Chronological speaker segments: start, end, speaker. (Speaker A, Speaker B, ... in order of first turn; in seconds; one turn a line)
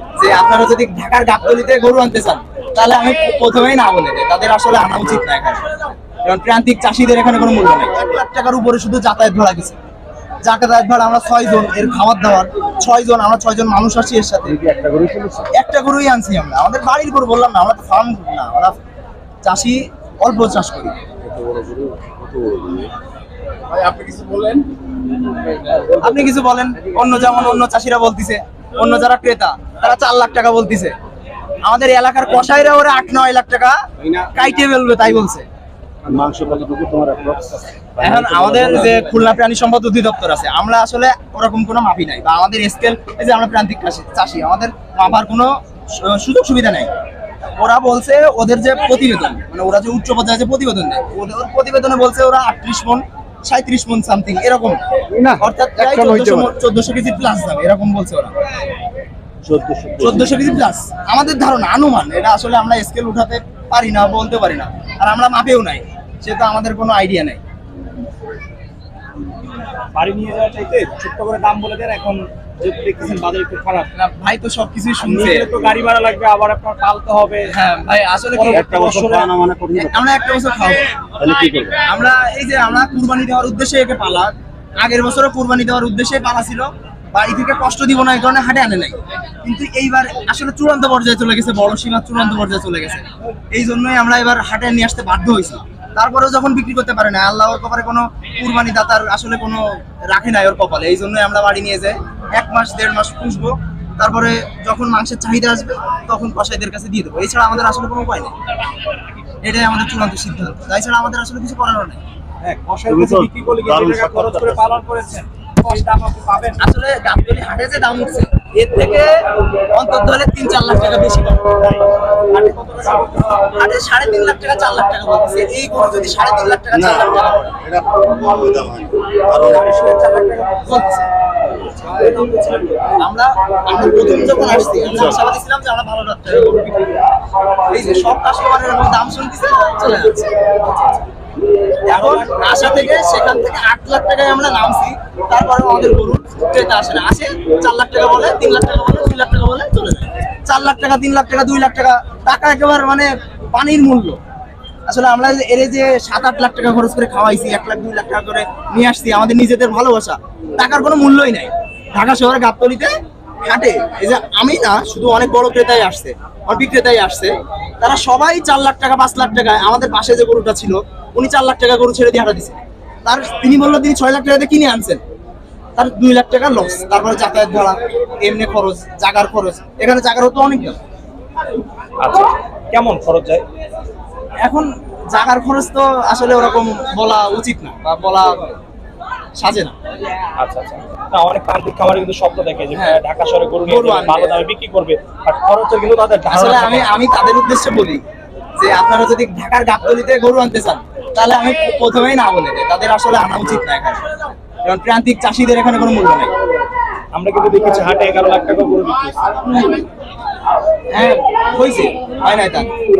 Speaker A: 0.2-5.6
Speaker A: 6.2-9.8
Speaker A: 10.4-14.6
Speaker B: 14.5-15.5
Speaker A: 15.5-18.8
Speaker A: 19.4-20.9
Speaker B: 21.2-22.9
Speaker B: 23.7-24.7
Speaker B: 25.7-26.0
Speaker A: 25.9-30.9
Speaker A: 31.6-35.4
Speaker B: 36.0-39.0
Speaker A: 38.0-46.9
Speaker A: 47.6-54.8
Speaker B: 55.1-56.5
Speaker A: 55.4-58.3
Speaker B: 59.4-60.5
Speaker A: 60.0-67.4
Speaker C: 69.9-73.9
Speaker A: 73.9-75.5
Speaker C: 75.0-77.5
Speaker A: 77.5-78.7
Speaker C: 78.3-79.3
Speaker B: 78.5-80.0
Speaker A: 79.8-80.9
Speaker B: 81.2-81.8
Speaker A: 81.8-108.3
Speaker A: 109.4-112.0
Speaker C: 112.4-116.6
Speaker B: 112.9-114.6
Speaker A: 116.6-121.5
Speaker C: 121.6-123.4
Speaker A: 123.3-127.5
Speaker B: 126.8-130.1
Speaker C: 129.4-130.9
Speaker A: 130.6-131.0
Speaker C: 131.5-132.8
Speaker A: 132.9-136.7
Speaker A: 137.7-140.8
Speaker A: 141.8-154.2
Speaker C: 141.8-142.9
Speaker A: 154.9-162.9
Speaker A: 163.4-175.0
Speaker A: 175.8-180.8
Speaker C: 182.0-183.4
Speaker A: 184.4-188.6
Speaker A: 189.4-189.8
Speaker C: 190.4-196.9
Speaker A: 192.7-193.0
Speaker A: 193.6-194.4
Speaker A: 196.3-198.0
Speaker A: 198.6-204.1
Speaker A: 204.6-206.3
Speaker C: 207.1-209.6
Speaker A: 210.9-212.7